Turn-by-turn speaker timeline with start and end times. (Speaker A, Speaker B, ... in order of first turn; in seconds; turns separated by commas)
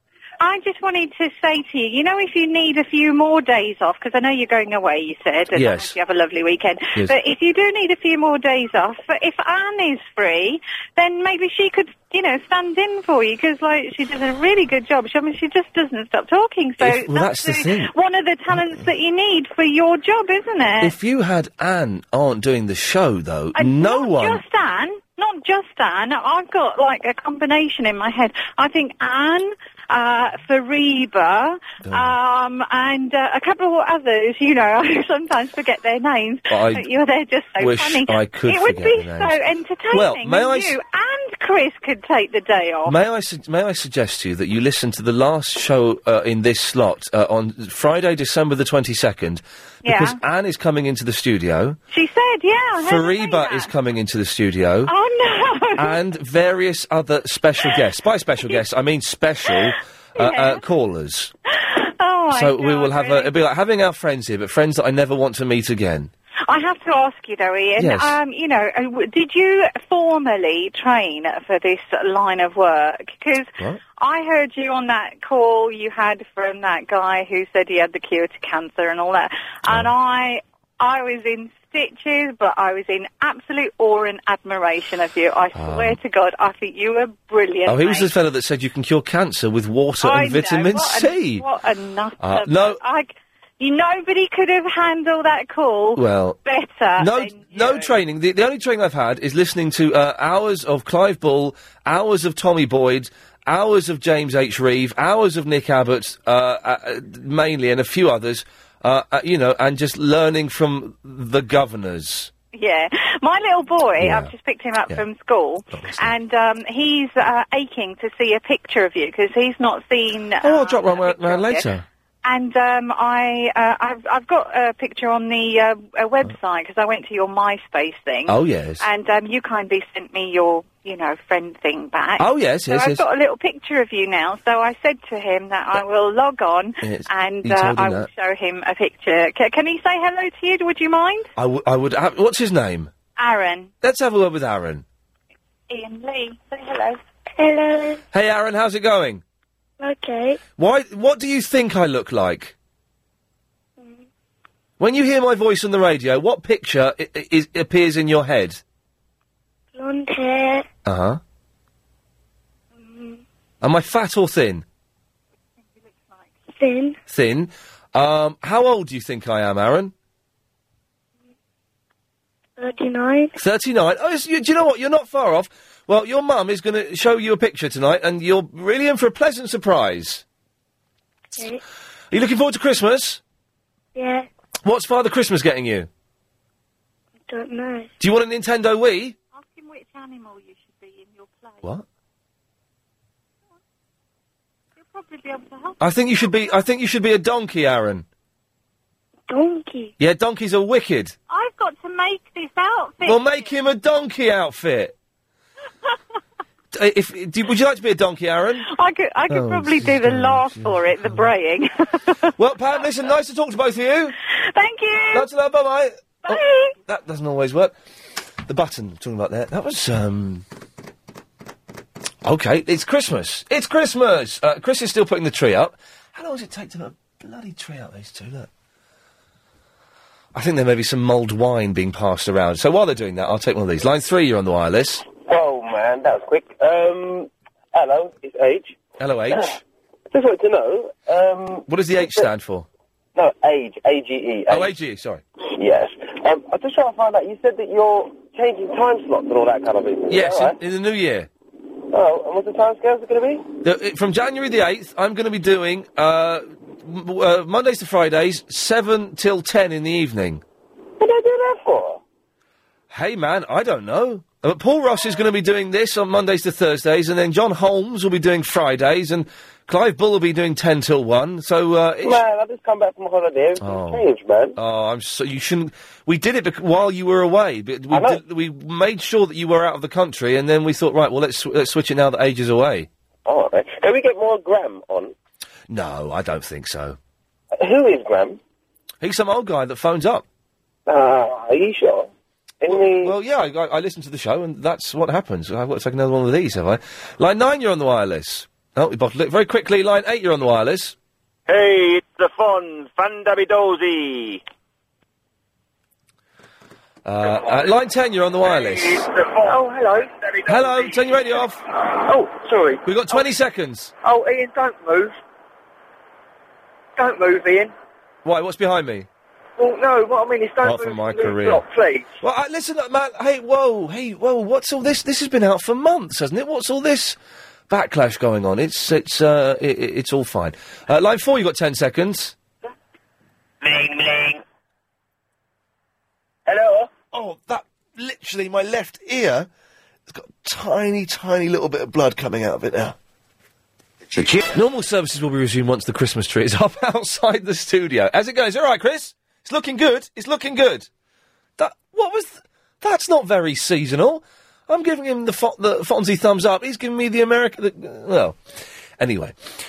Speaker A: 0.4-21.0, Speaker B: 5.5-6.0, Speaker B: 16.8-17.9, Speaker B: 20.8-24.4, Speaker A: 23.6-43.0, Speaker B: 31.9-32.1, Speaker B: 36.5-36.9, Speaker B: 37.6-39.4, Speaker B: 39.9-40.7, Speaker B: 42.9-51.8, Speaker A: 49.8-50.2, Speaker A: 51.9-53.7, Speaker B: 52.8-54.9, Speaker A: 54.9-56.0, Speaker B: 55.8-61.3, Speaker A: 59.5-60.6, Speaker A: 61.5-63.3, Speaker B: 62.3-66.1, Speaker A: 66.5-88.1, Speaker B: 67.8-68.2, Speaker B: 85.5-86.0, Speaker B: 87.7-91.5, Speaker A: 90.0-98.0, Speaker B: 92.2-92.8, Speaker B: 96.0-96.4, Speaker B: 97.0-112.3, Speaker A: 112.5-121.7, Speaker B: 114.0-114.3, Speaker B: 115.7-116.2, Speaker B: 120.4-121.8, Speaker A: 122.2-141.3, Speaker B: 128.3-128.8, Speaker B: 132.2-133.0, Speaker B: 136.8-138.1, Speaker B: 141.4-142.9, Speaker A: 143.2-143.7, Speaker B: 143.8-144.8, Speaker A: 145.7-147.0, Speaker C: 147.4-148.0, Speaker B: 148.1-149.2, Speaker C: 149.8-150.4, Speaker B: 150.6-152.5, Speaker C: 153.8-154.0, Speaker B: 154.8-158.6, Speaker C: 159.8-160.7, Speaker B: 160.8-161.2, Speaker C: 162.9-163.2, Speaker B: 163.6-164.6, Speaker A: 165.8-166.2, Speaker C: 166.6-167.0, Speaker B: 167.1-169.9, Speaker C: 172.6-173.3, Speaker B: 173.4-180.2, Speaker B: 182.1-183.2, Speaker C: 184.0-184.3, Speaker B: 184.7-185.9, Speaker C: 187.3-187.9, Speaker B: 188.0-189.2, Speaker A: 189.3-191.7, Speaker A: 194.8-196.6, Speaker B: 195.8-198.1, Speaker C: 199.3-199.9, Speaker B: 200.0-201.1, Speaker A: 201.3-203.5, Speaker B: 203.1-204.9, Speaker B: 206.7-208.7, Speaker A: 208.7-212.3, Speaker B: 209.3-211.2, Speaker B: 212.4-214.2, Speaker A: 214.4-215.3, Speaker B: 215.1-217.8, Speaker A: 216.2-216.8, Speaker B: 218.4-220.4, Speaker B: 222.2-228.5, Speaker B: 230.3-235.1, Speaker D: 235.2-238.8, Speaker B: 239.0-239.6, Speaker D: 240.1-242.3, Speaker B: 241.7-242.7, Speaker D: 243.2-244.7, Speaker B: 244.5-245.2, Speaker D: 245.6-250.6, Speaker B: 250.1-251.3, Speaker D: 251.9-253.5, Speaker B: 253.6-260.4, Speaker D: 261.0-262.0, Speaker B: 262.9-272.2, Speaker D: 272.0-274.6, Speaker B: 273.6-282.9, Speaker D: 277.9-278.2, Speaker D: 283.3-285.1, Speaker B: 285.7-287.0, Speaker D: 287.6-288.4, Speaker B: 289.0-290.2, Speaker D: 290.9-292.1, Speaker D: 292.6-293.1, Speaker B: 292.7-300.9, Speaker E: 301.5-304.4, Speaker B: 307.1-309.1, Speaker E: 308.8-311.2, Speaker B: 310.5-311.6, Speaker E: 311.9-313.3, Speaker B: 312.9-313.9, Speaker E: 314.0-315.2, Speaker E: 317.0-317.7, Speaker B: 318.2-319.1, Speaker E: 319.6-322.2, Speaker B: 320.6-321.6, Speaker B: 322.2-327.2, Speaker B: 327.7-332.4, Speaker D: 336.5-336.9, Speaker B: 337.1-339.5, Speaker B: 340.1-343.0, Speaker B: 344.5-350.9, Speaker B: 351.6-358.4, Speaker B: 359.0-359.4